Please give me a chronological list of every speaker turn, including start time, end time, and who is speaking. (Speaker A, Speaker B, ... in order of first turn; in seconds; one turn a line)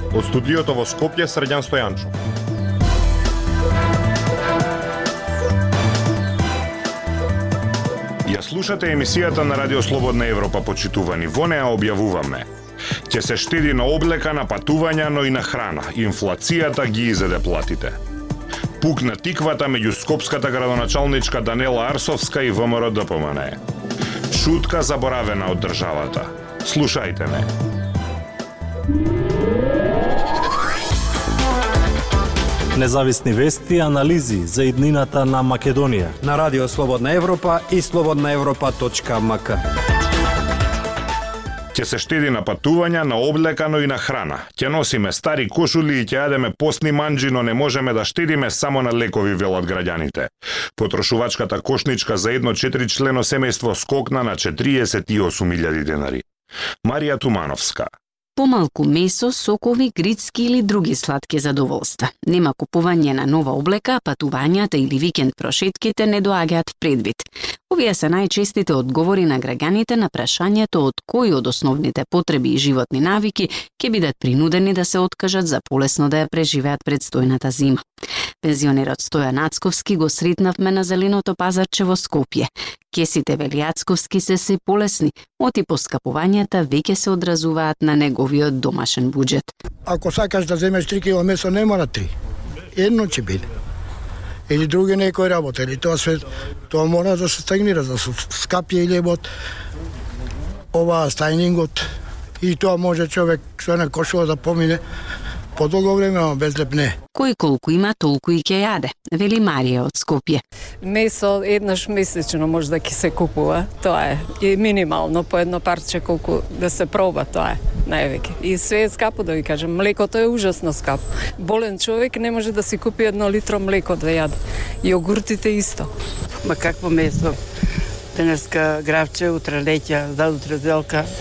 Speaker A: 0.2-2.1
Speaker A: 8.3-12.5
Speaker A: 13.1-17.9
Speaker A: 18.8-23.6
Speaker A: 24.3-27.4
Speaker B: 32.8-36.8
Speaker C: 36.3-39.6
Speaker B: 37.6-39.5
Speaker A: 41.7-56.2
Speaker A: 56.9-57.9
Speaker D: 58.4-77.8
Speaker D: 78.4-89.5
Speaker E: 89.9-92.1
Speaker E: 92.7-93.5
Speaker E: 94.5-99.3
Speaker E: 100.7-101.8
Speaker E: 102.4-104.8
Speaker E: 105.6-107.0
Speaker D: 107.2-110.4
Speaker F: 110.8-125.9
Speaker G: 126.4-127.4
Speaker G: 128.1-131.1